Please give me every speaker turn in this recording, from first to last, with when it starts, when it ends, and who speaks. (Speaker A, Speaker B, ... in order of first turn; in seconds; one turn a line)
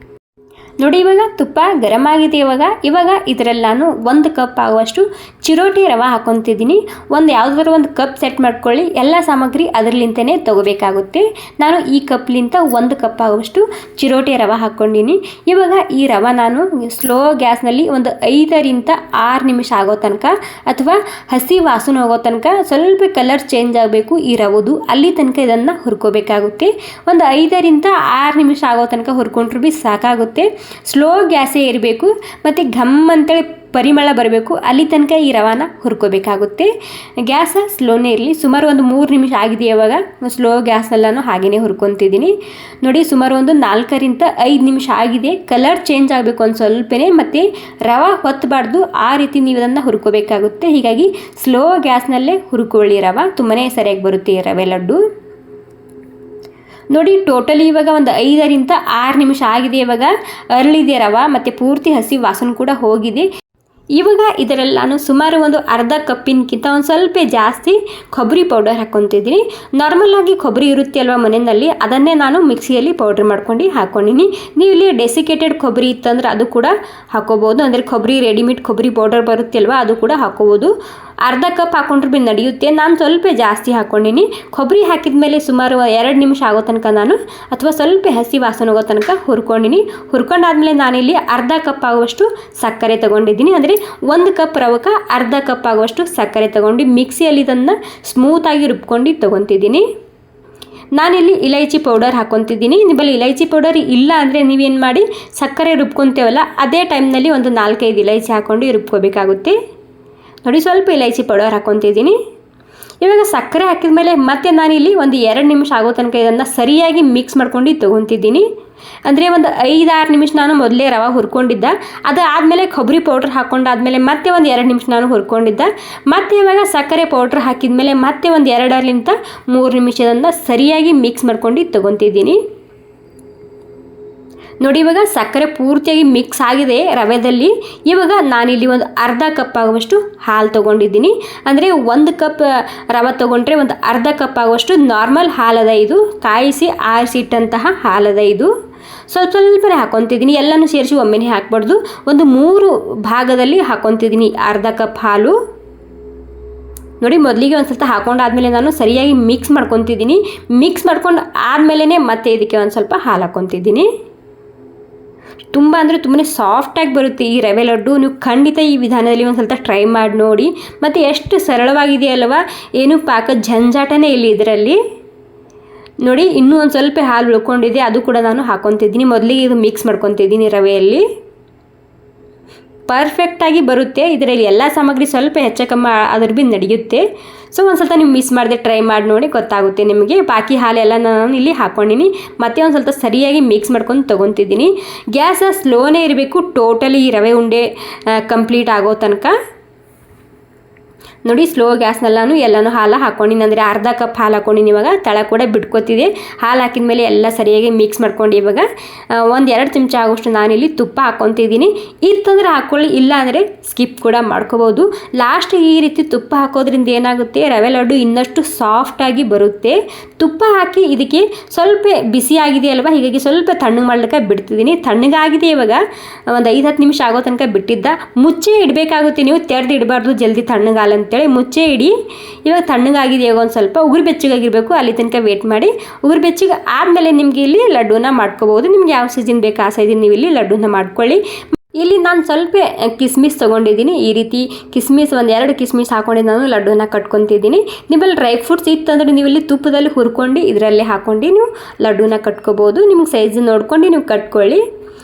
Speaker A: 0.8-55.0
Speaker A: 56.9-63.3
Speaker A: 64.0-80.7
Speaker A: 81.2-99.8
Speaker A: 101.0-109.5
Speaker A: 110.5-112.2
Speaker A: 113.0-118.5
Speaker A: 119.0-132.4
Speaker A: 134.6-148.5
Speaker A: 149.1-155.3
Speaker A: 157.0-163.9
Speaker A: 165.5-174.8
Speaker A: 176.0-181.0
Speaker A: 182.9-199.3
Speaker A: 201.2-208.7
Speaker A: 209.2-231.9
Speaker A: 232.4-241.2
Speaker A: 241.8-254.6